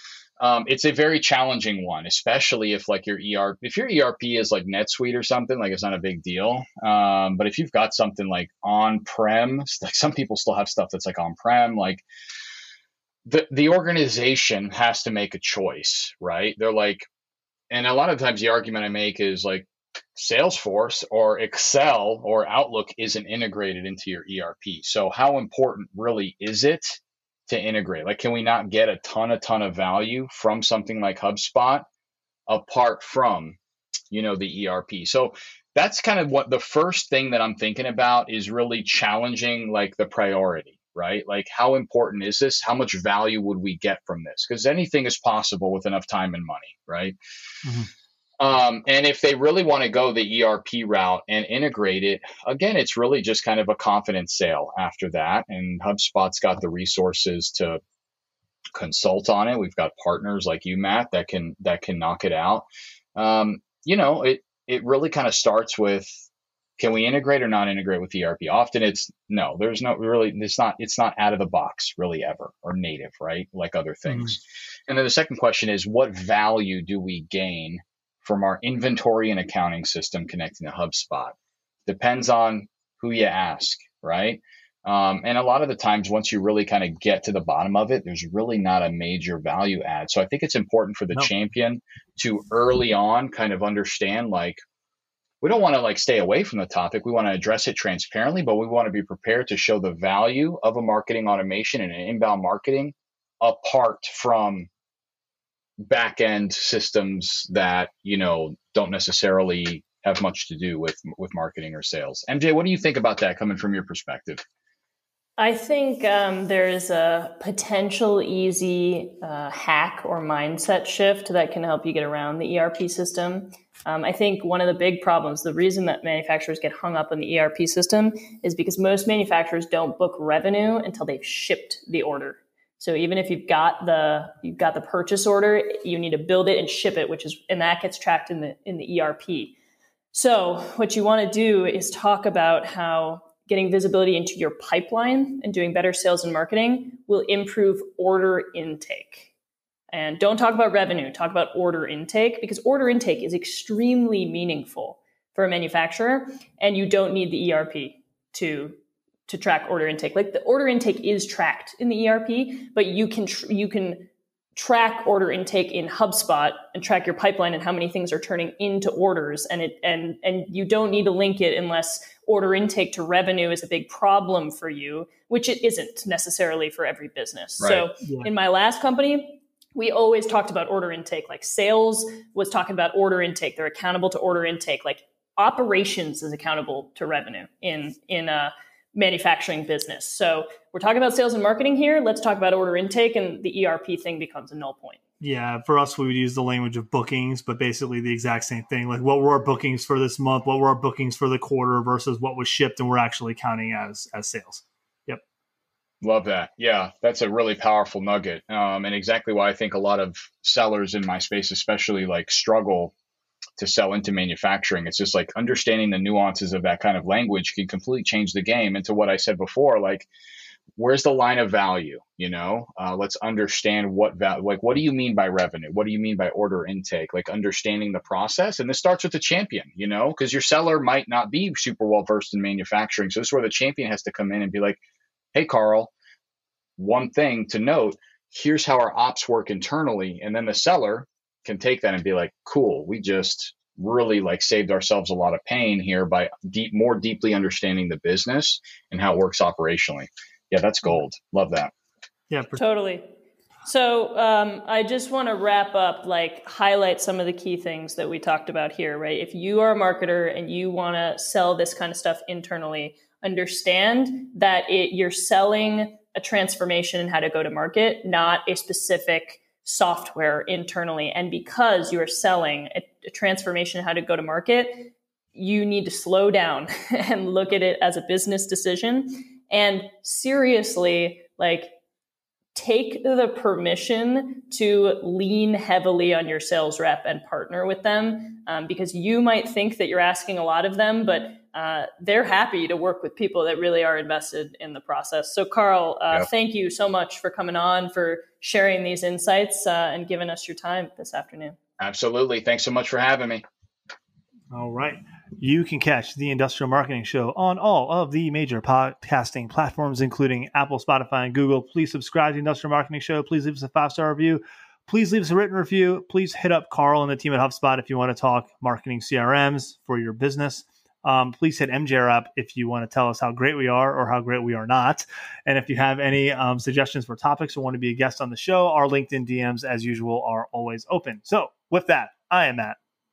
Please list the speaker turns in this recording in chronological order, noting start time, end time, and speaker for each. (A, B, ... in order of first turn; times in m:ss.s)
0:00.4-0:12.0 A
0:13.2-0:17.0 A
0:17.7-0:31.8 A
0:32.5-0:33.6 A
0:34.1-0:47.2 A
0:47.6-0:47.9 B
0:48.4-0:57.8 A
0:58.7-1:06.2 A
1:06.8-1:21.3 A
1:14.1-1:14.3 B
1:21.8-1:34.6 A
1:35.4-1:44.7 A
1:45.8-1:54.4 A
1:55.4-2:19.5 C
2:20.1-2:29.3 C
2:29.9-3:15.0 C
2:57.6-2:57.9 A
2:58.0-2:58.3 B
3:15.2-3:25.2 B
3:26.0-3:32.9 A
3:33.6-3:40.1 A
3:40.8-3:54.8 A
3:55.3-3:55.9 A
3:56.8-4:11.7 A
4:12.3-4:12.6 B
4:12.6-4:13.1 C
4:13.6-4:41.7 C
4:42.5-5:01.6 C
5:01.8-5:03.4 A
5:04.5-5:32.8 B